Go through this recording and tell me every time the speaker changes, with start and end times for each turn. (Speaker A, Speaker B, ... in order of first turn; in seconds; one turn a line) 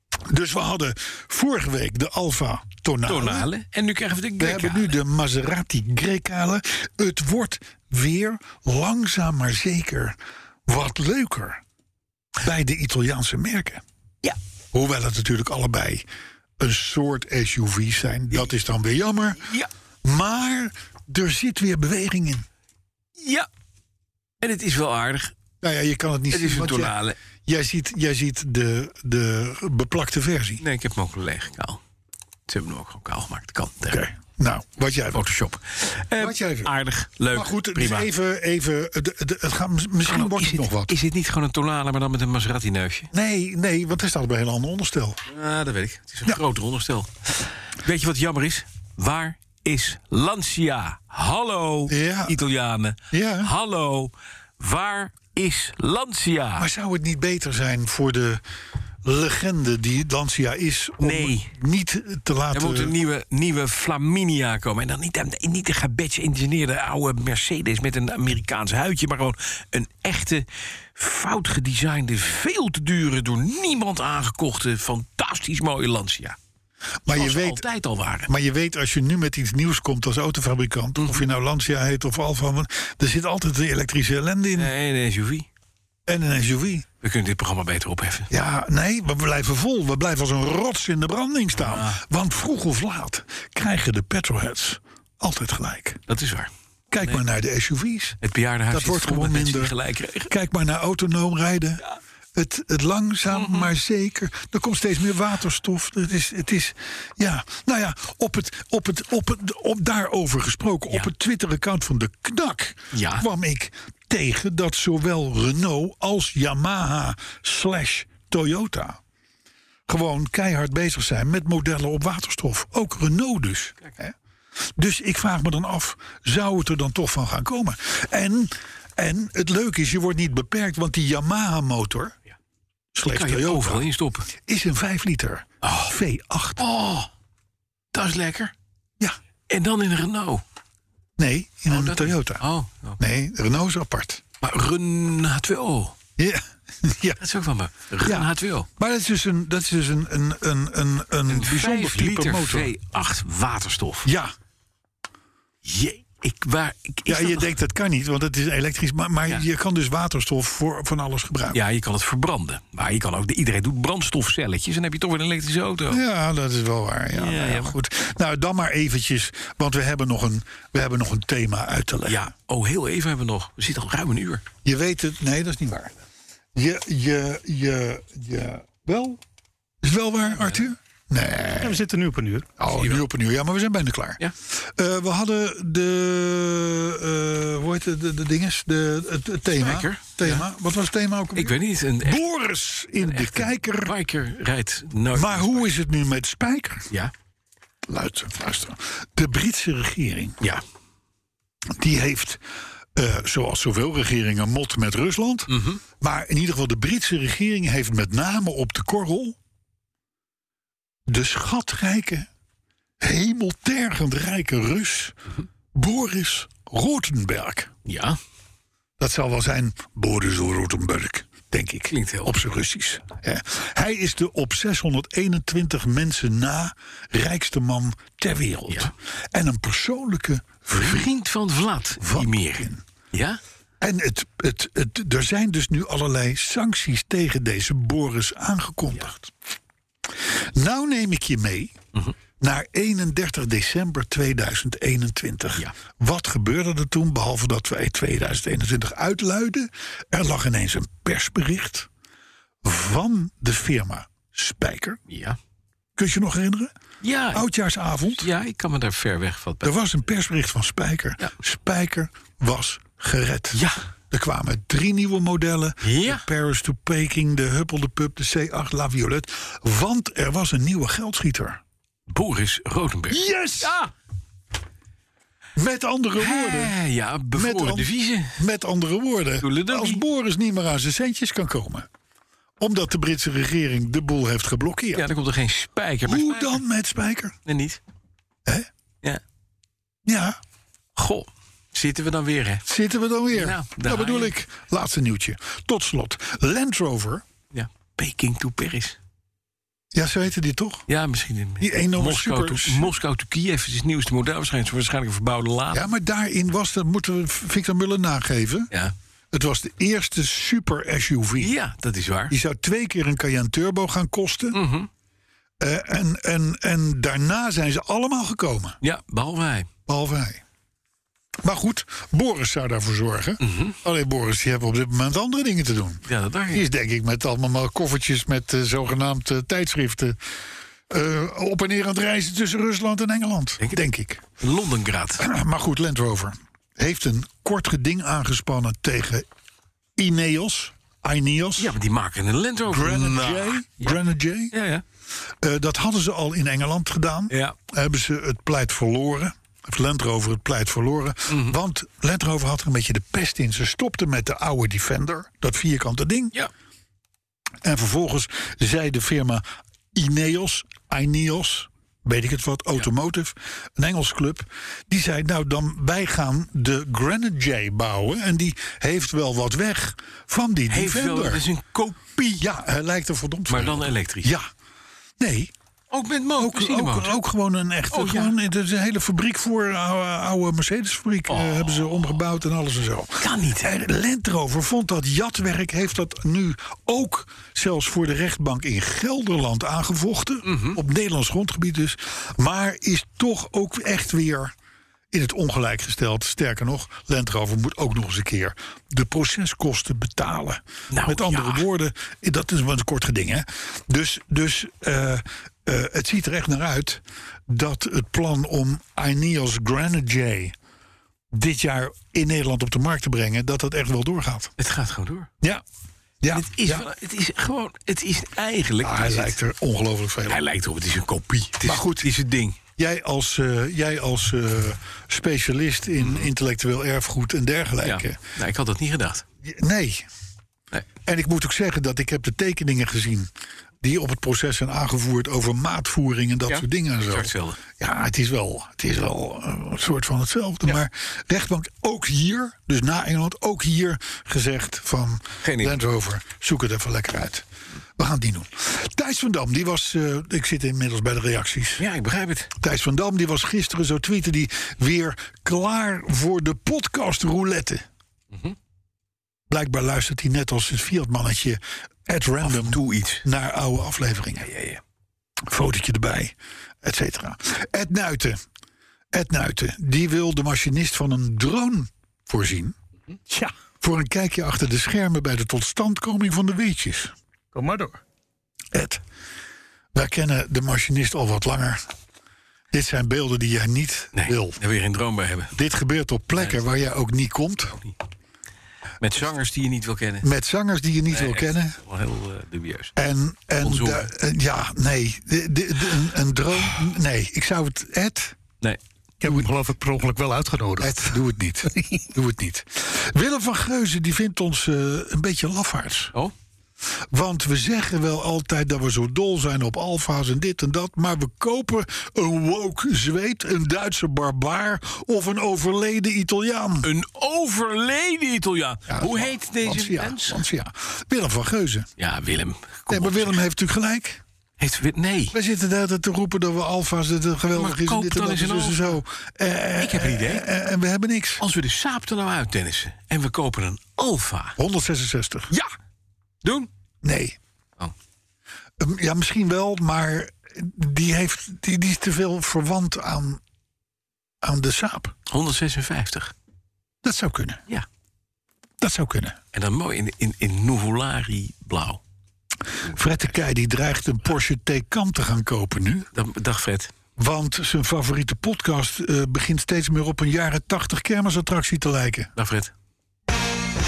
Speaker A: 0.3-3.5
Speaker B: 3.1-5.0
Speaker A: 4.4-11.6
Speaker A: 12.4-13.8
Speaker A: 14.7-16.1
Speaker A: 16.6-19.4
Speaker B: 19.4-19.7
Speaker A: 20.0-22.5
Speaker B: 23.2-23.5
Speaker B: 24.4-25.3
Speaker A: 25.6-26.9
Speaker B: 26.3-27.2
Speaker A: 27.5-30.6
Speaker B: 30.6-31.8
Speaker B: 32.5-34.0
Speaker A: 33.9-35.3
Speaker B: 35.1-38.1
Speaker A: 36.2-36.7
Speaker A: 37.3-41.0
Speaker B: 40.1-43.1
Speaker A: 43.1-45.2
Speaker B: 45.3-56.7
Speaker A: 51.9-52.4
Speaker A: 53.1-53.5
Speaker A: 56.6-58.4
Speaker A: 59.0-62.9
Speaker B: 61.0-61.5
Speaker B: 62.5-76.4
Speaker A: 77.0-77.7
Speaker B: 77.1-78.3
Speaker A: 78.3-84.7
Speaker B: 81.0-81.2
Speaker B: 84.5-85.5
Speaker A: 86.1-86.9
Speaker B: 87.0-88.3
Speaker A: 88.3-96.0
Speaker B: 91.5-92.0
Speaker B: 96.1-96.5
Speaker A: 96.9-98.2
Speaker B: 98.2-100.3
Speaker A: 98.7-99.8
Speaker A: 100.3-101.8
Speaker A: 102.3-119.0
Speaker B: 103.3-103.7
Speaker B: 112.9-113.3
Speaker A: 119.9-132.2
Speaker A: 132.9-136.6
Speaker B: 133.1-134.3
Speaker B: 135.6-136.0
Speaker B: 136.6-137.1
Speaker B: 137.9-138.5
Speaker B: 139.5-140.4
Speaker A: 141.2-142.4
Speaker B: 141.7-143.0
Speaker A: 143.0-144.2
Speaker B: 144.4-145.9
Speaker A: 146.2-147.2
Speaker B: 147.2-148.7
Speaker A: 148.0-152.7
Speaker B: 151.3-154.1
Speaker A: 154.1-154.3
Speaker B: 155.7-157.5
Speaker A: 157.1-161.6
Speaker B: 161.5-166.0
Speaker A: 165.9-172.3
Speaker B: 167.1-167.8
Speaker B: 172.1-174.4
Speaker A: 174.6-176.0
Speaker A: 176.6-179.2
Speaker A: 179.8-181.8
Speaker B: 180.3-180.7
Speaker C: 181.6-182.5
Speaker A: 182.6-194.0
Speaker B: 182.7-183.0
Speaker B: 189.5-190.5
Speaker B: 191.3-192.2
Speaker B: 193.0-195.7
Speaker A: 195.1-196.9
Speaker A: 197.9-200.4
Speaker A: 201.7-202.4
Speaker A: 202.9-209.4
Speaker B: 205.5-205.8
Speaker A: 211.1-212.3
Speaker A: 213.0-215.2
Speaker A: 215.7-217.7
Speaker B: 217.8-218.2
Speaker A: 219.0-231.1
Speaker B: 221.9-222.4
Speaker B: 228.7-228.9
Speaker B: 230.7-233.4
Speaker A: 232.0-232.8
Speaker A: 233.8-239.3
Speaker A: 240.2-241.8
Speaker A: 242.4-251.9
Speaker A: 252.6-255.0
Speaker B: 255.1-255.4
Speaker A: 256.0-256.7
Speaker B: 257.0-257.5
Speaker A: 257.3-258.3
Speaker B: 258.2-259.8
Speaker A: 259.6-271.6
Speaker B: 263.5-263.8
Speaker B: 265.8-266.3
Speaker B: 272.1-273.9
Speaker A: 273.1-273.8
Speaker A: 275.6-276.8
Speaker B: 276.2-278.4
Speaker A: 277.3-281.9
Speaker B: 279.4-280.0
Speaker A: 282.6-285.1
Speaker B: 284.9-286.6
Speaker A: 286.1-287.4
Speaker B: 287.4-287.8
Speaker A: 290.1-290.4
Speaker B: 291.0-292.6
Speaker A: 292.7-297.2
Speaker B: 293.3-294.3
Speaker B: 297.5-299.0
Speaker A: 299.9-300.9
Speaker B: 300.9-305.9
Speaker A: 301.6-302.9
Speaker A: 305.7-308.7
Speaker A: 309.3-311.5
Speaker B: 311.4-312.4
Speaker A: 312.3-314.6
Speaker B: 314.5-314.9
Speaker A: 315.6-318.8
Speaker B: 318.8-319.7
Speaker A: 319.9-320.4
Speaker A: 321.4-330.2
Speaker B: 323.4-323.8
Speaker B: 326.1-326.6
Speaker A: 330.9-334.2
Speaker B: 334.4-335.3
Speaker A: 335.2-339.3
Speaker A: 340.0-341.7
Speaker B: 341.6-344.0
Speaker A: 342.7-344.5
Speaker B: 344.5-344.8
Speaker A: 345.4-356.3
Speaker B: 347.3-347.6
Speaker B: 351.3-351.6
Speaker A: 357.6-371.4
Speaker B: 370.7-372.5
Speaker A: 372.4-374.5
Speaker B: 373.5-374.3
Speaker A: 375.2-375.5
Speaker B: 375.9-377.2
Speaker A: 376.4-394.5
Speaker B: 377.9-378.3
Speaker B: 381.3-382.2
Speaker B: 383.2-383.7
Speaker B: 390.4-390.8
Speaker A: 395.1-410.6
Speaker B: 400.9-401.7
Speaker A: 411.3-414.5
Speaker B: 414.6-415.3
Speaker A: 416.2-416.9
Speaker B: 416.3-419.4
Speaker A: 418.8-420.4
Speaker B: 420.3-422.6
Speaker A: 421.6-422.1
Speaker A: 422.8-428.2
Speaker B: 426.0-426.3
Speaker B: 427.8-429.2
Speaker A: 429.4-430.1
Speaker A: 431.1-433.3
Speaker A: 433.8-451.9
Speaker B: 436.5-437.6
Speaker B: 445.4-445.8
Speaker B: 451.8-452.5
Speaker A: 452.6-457.9
Speaker A: 459.5-464.5
Speaker B: 462.4-463.3
Speaker B: 464.4-464.8
Speaker A: 465.5-468.4
Speaker A: 469.1-472.8
Speaker A: 473.8-477.1
Speaker C: 477.5-478.0
Speaker A: 478.7-479.0
Speaker A: 479.9-481.8
Speaker A: 482.7-484.6
Speaker B: 484.1-485.6
Speaker A: 485.6-487.8
Speaker B: 486.4-486.6
Speaker B: 489.0-490.3
Speaker A: 490.2-491.8
Speaker B: 491.1-492.9
Speaker A: 493.0-498.4
Speaker B: 493.6-494.1
Speaker C: 499.2-501.2
Speaker A: 500.8-506.1
Speaker C: 501.7-502.0
Speaker A: 507.1-516.9
Speaker B: 516.8-520.4
Speaker A: 518.9-521.9
Speaker B: 522.0-523.4
Speaker A: 522.9-524.2
Speaker B: 524.6-525.4
Speaker A: 525.3-531.4
Speaker B: 527.5-529.0
Speaker B: 529.8-530.5
Speaker B: 531.4-534.6
Speaker A: 534.6-535.5
Speaker B: 536.4-536.7
Speaker A: 537.0-537.4
Speaker A: 538.8-543.4
Speaker A: 544.4-545.1
Speaker B: 545.3-546.3
Speaker A: 547.0-547.6
Speaker A: 548.8-549.4
Speaker B: 549.5-552.0
Speaker A: 552.9-556.1
Speaker B: 552.9-553.4
Speaker B: 556.1-556.9
Speaker A: 557.2-562.3
Speaker B: 562.4-562.7